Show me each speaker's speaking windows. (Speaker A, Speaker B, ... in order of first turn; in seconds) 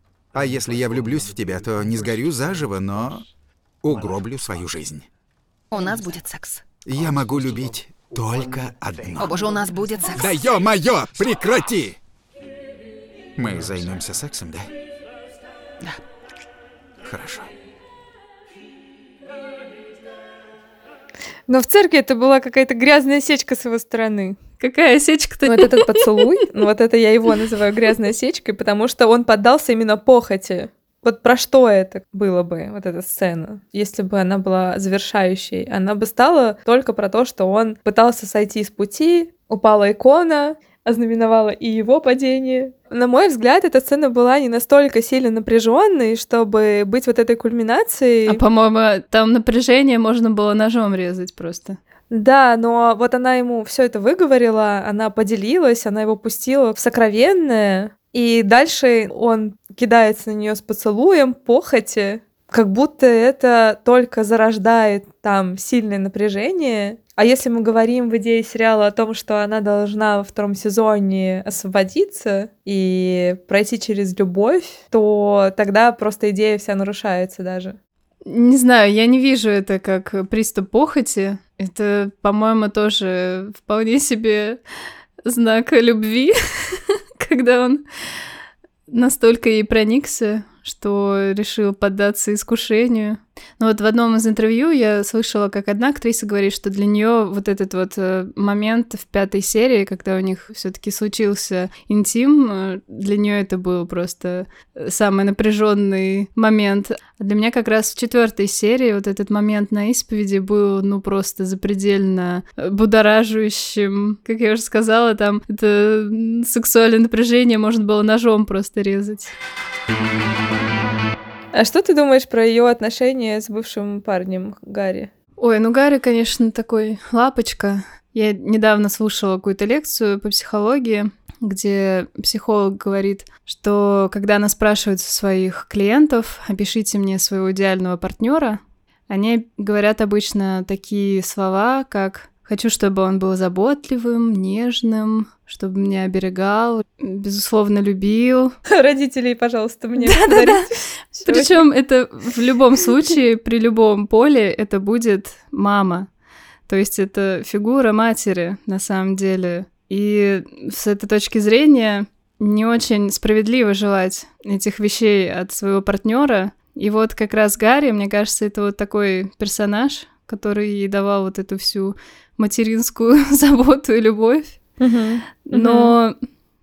Speaker A: 0.3-3.2, 3.8-5.0, 6.8-9.4, 10.1-12.0, 13.3-14.7, 17.0-17.5
Speaker B: 5.7-6.6, 9.2-10.3
Speaker C: 21.5-24.4, 25.4-48.4, 52.1-77.8, 121.5-125.1, 148.7-151.6, 174.8-175.9
Speaker D: 24.6-26.3, 48.3-51.8, 78.2-84.6, 85.2-87.8, 88.9-119.3, 125.4-148.6, 150.0-156.1, 156.7-174.6, 175.5-176.2